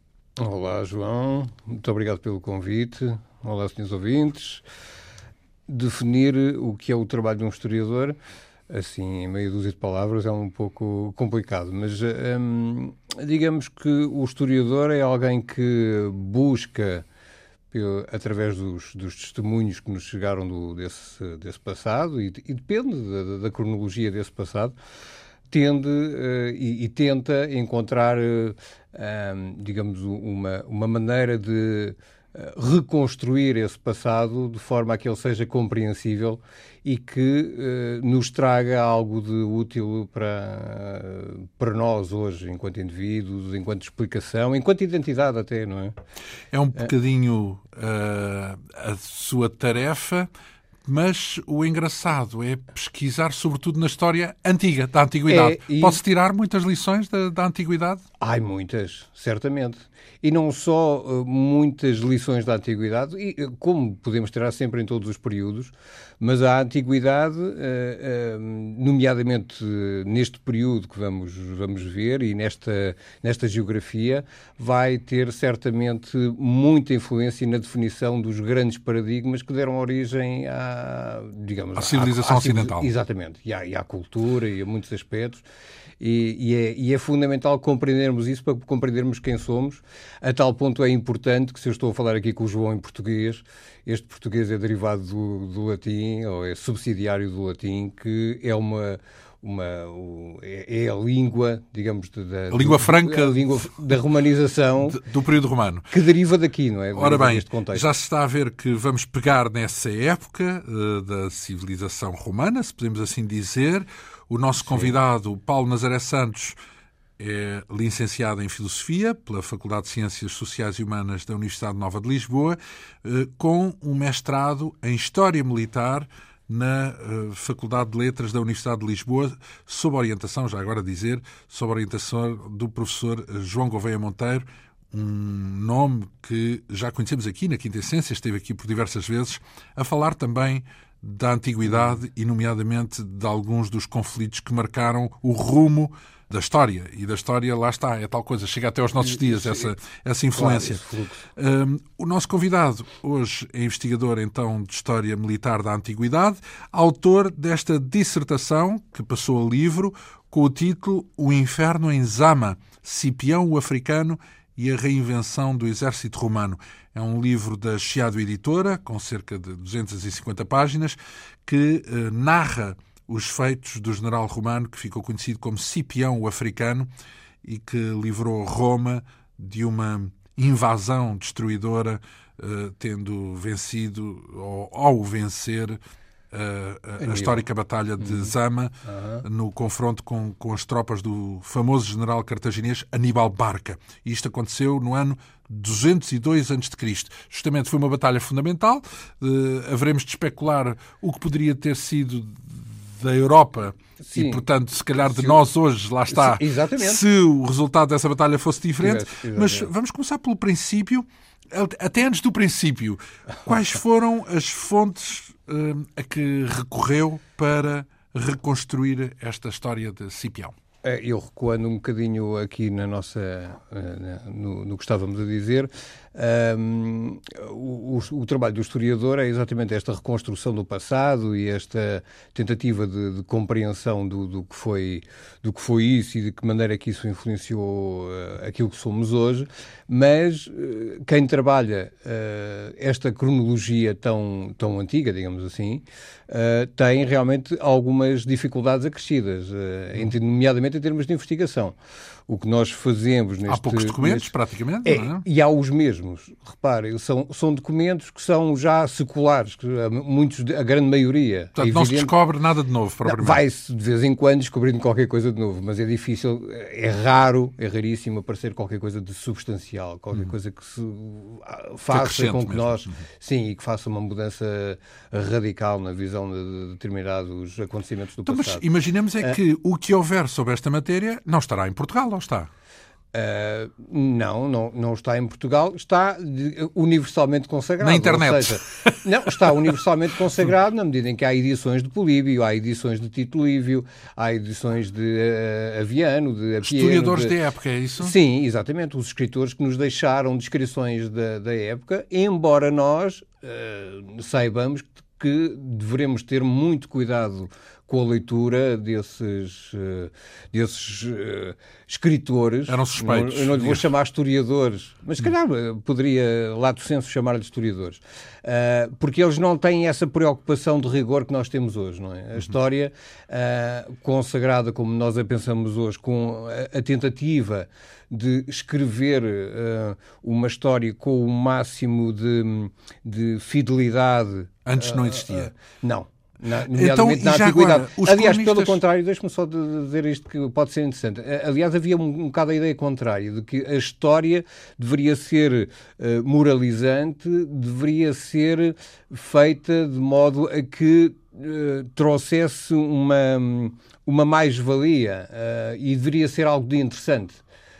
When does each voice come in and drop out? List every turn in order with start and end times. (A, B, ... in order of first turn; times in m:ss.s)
0:00.4-0:04.6 A
0:05.7-0:08.2 A
0:08.7-0:17.0 A
0:17.7-0:24.8 A
0:25.5-0:45.9 A
0:46.5-0:50.3 B
0:50.8-0:58.0 B
0:55.3-0:56.0 A
0:58.2-1:25.4 A
1:21.8-1:22.9 B
1:26.0-1:45.0 A
1:42.5-1:43.7 B
1:44.8-1:45.9 B
1:45.9-1:47.9 A
1:47.0-1:56.6 B
1:54.6-1:54.9 A
1:57.2-2:56.9 B
2:29.0-2:29.7 A
2:30.3-2:31.2 A
2:57.4-3:05.8 B
3:06.3-3:40.5 B
3:07.0-3:07.4 A
3:08.0-3:08.3 A
3:08.8-3:09.2 A
3:24.0-3:24.4 A
3:25.0-3:25.4 A
3:26.1-3:27.0 A
3:28.8-3:29.7 A
3:40.8-4:11.8 A
4:12.3-4:14.3 A
4:13.5-4:15.2 B
4:14.8-4:22.1 A
4:21.6-4:23.4 B
4:23.0-4:38.6 A
4:31.9-4:32.9 B
4:38.2-4:42.5 B
4:43.1-4:57.4 A
4:47.8-4:49.7 B
4:56.6-4:58.1 B
4:58.0-5:57.4 A
5:12.7-5:13.9 B
5:34.6-5:35.5 B
5:36.7-5:38.8 B